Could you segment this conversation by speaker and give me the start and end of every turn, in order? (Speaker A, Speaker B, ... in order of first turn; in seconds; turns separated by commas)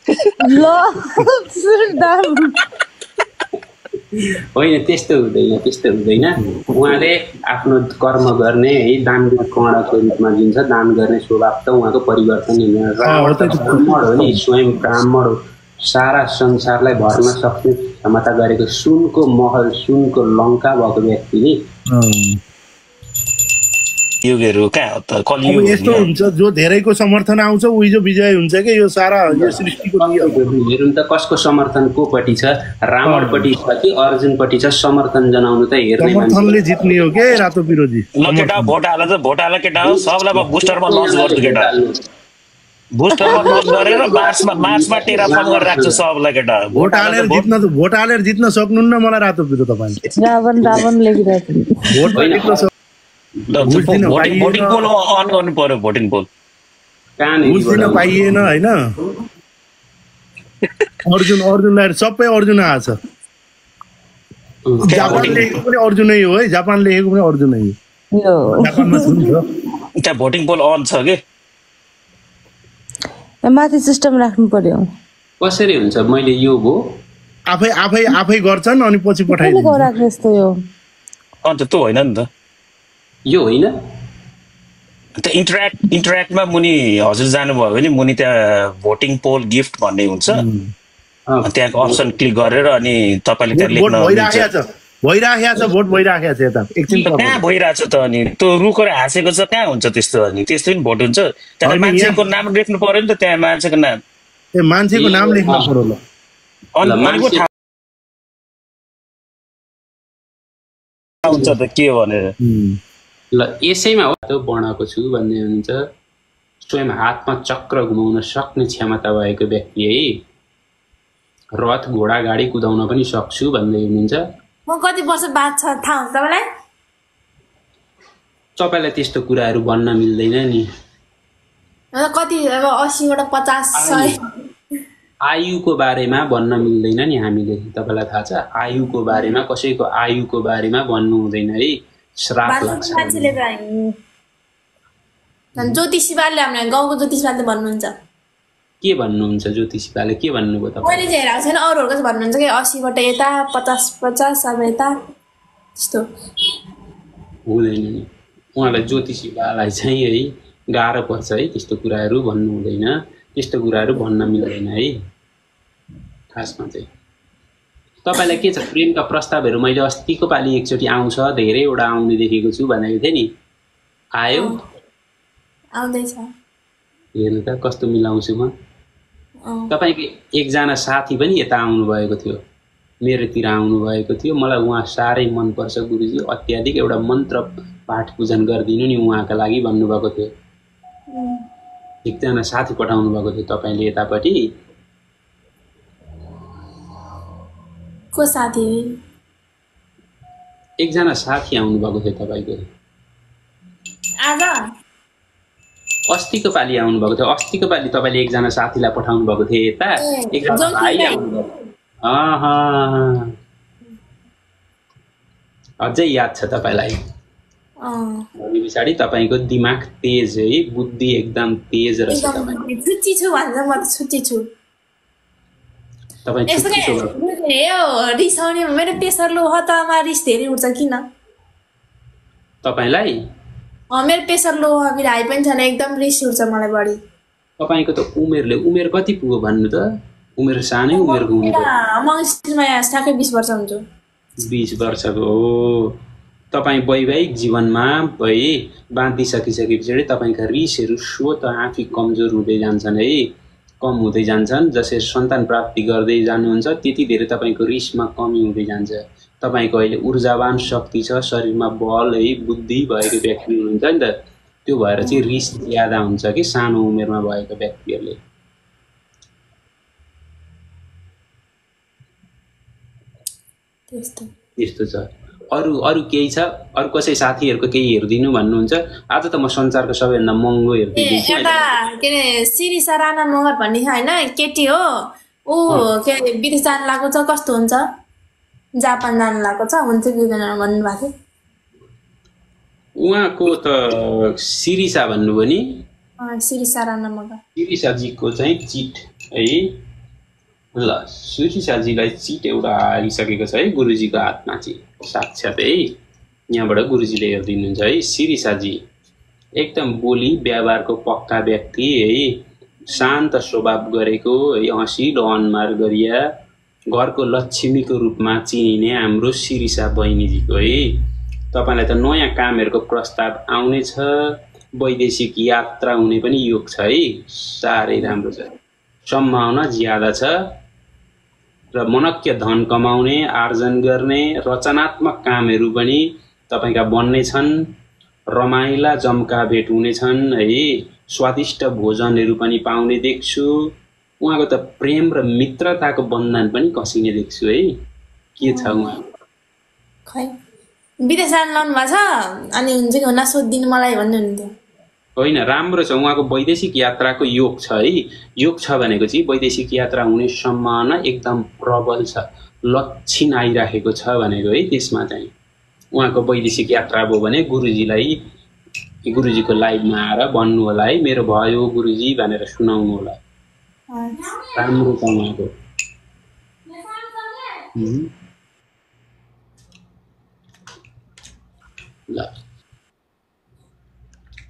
Speaker A: 0.4-2.5, Speaker B: 4.2-15.3, Speaker C: 13.0-14.4, Speaker B: 15.8-21.6, Speaker C: 21.9-22.4, Speaker D: 24.2-26.1, Speaker C: 25.4-30.4, Speaker B: 29.3-36.8, Speaker C: 33.0-33.5, Speaker C: 36.0-38.7, Speaker D: 38.2-41.7, Speaker B: 39.8-42.0, Speaker D: 42.9-47.5, Speaker A: 43.2-43.6, Speaker B: 43.3-46.0, Speaker C: 46.8-50.0, Speaker A: 50.1-51.8, Speaker C: 51.9-52.7, Speaker B: 52.1-52.7, Speaker D: 53.5-56.3, Speaker C: 53.6-54.8, Speaker B: 57.2-58.1, Speaker C: 57.5-58.8, Speaker C: 61.1-63.0, Speaker B: 64.7-65.5, Speaker C: 64.8-67.7, Speaker D: 64.9-65.5, Speaker A: 68.1-69.3, Speaker C: 68.6-69.5, Speaker D: 70.0-71.2, Speaker A: 73.5-74.8, Speaker B: 75.4-76.8, Speaker C: 77.5-79.9, Speaker A: 79.3-80.5, Speaker D: 81.4-82.3, Speaker B: 83.3-83.7, Speaker D: 85.2-90.4, Speaker C: 90.3-90.7, Speaker B: 91.3-92.0, Speaker D: 91.4-94.5, Speaker C: 93.5-97.4, Speaker D: 96.9-104.0, Speaker C: 101.6-102.2, Speaker C: 104.5-106.0, Speaker B: 104.9-105.8, Speaker D: 106.8-107.5, Speaker B: 106.8-107.5, Speaker D: 111.2-112.3, Speaker B: 111.3-111.5, Speaker C: 112.4-112.8, Speaker B: 113.3-115.8, Speaker B: 116.6-120.1, Speaker B: 121.6-124.2, Speaker E: 124.7-126.4, Speaker B: 128.6-130.7, Speaker E: 131.9-134.2, Speaker B: 133.7-134.2, Speaker B: 135.3-143.3, Speaker E: 142.4-143.8, Speaker E: 145.6-147.9, Speaker B: 148.8-151.1, Speaker E: 150.8-154.9, Speaker B: 157.5-164.9, Speaker B: 166.3-166.8, Speaker B: 168.0-173.3, Speaker B: 174.2-174.5, Speaker E: 175.8-176.2, Speaker B: 177.2-178.5, Speaker B: 179.7-182.4, Speaker B: 183.0-190.3, Speaker B: 192.0-194.4, Speaker E: 198.1-198.7, Speaker B: 200.8-202.6, Speaker E: 204.2-204.5, Speaker B: 206.1-211.5, Speaker E: 210.0-211.2, Speaker B: 212.0-213.2, Speaker B: 215.8-216.9, Speaker E: 217.8-218.2, Speaker B: 218.4-222.5, Speaker E: 222.1-224.4, Speaker B: 226.2-227.2, Speaker E: 226.5-231.0, Speaker B: 232.6-233.1, Speaker E: 233.9-237.0, Speaker B: 237.6-241.7, Speaker E: 240.9-243.8, Speaker B: 244.4-246.0, Speaker B: 246.5-253.2, Speaker B: 253.8-264.1, Speaker B: 264.6-268.2, Speaker E: 273.9-274.2, Speaker B: 274.6-281.6, Speaker E: 281.0-284.8, Speaker E: 285.5-287.8, Speaker E: 288.8-291.1, Speaker B: 293.0-295.6, Speaker E: 296.2-297.4, Speaker B: 297.6-299.7, Speaker B: 300.7-305.9, Speaker B: 306.5-308.8, Speaker B: 309.6-312.3, Speaker B: 312.9-316.2, Speaker B: 316.9-320.9, Speaker B: 321.5-324.1, Speaker B: 324.8-328.5, Speaker B: 329.1-330.3, Speaker B: 331.7-337.5, Speaker B: 338.3-343.5, Speaker B: 344.2-347.7, Speaker B: 348.4-349.0, Speaker E: 348.4-348.8, Speaker E: 351.1-352.0, Speaker E: 352.6-354.5, Speaker B: 355.2-365.3, Speaker B: 365.9-368.1, Speaker B: 369.1-373.2, Speaker B: 374.6-375.5, Speaker B: 377.7-378.1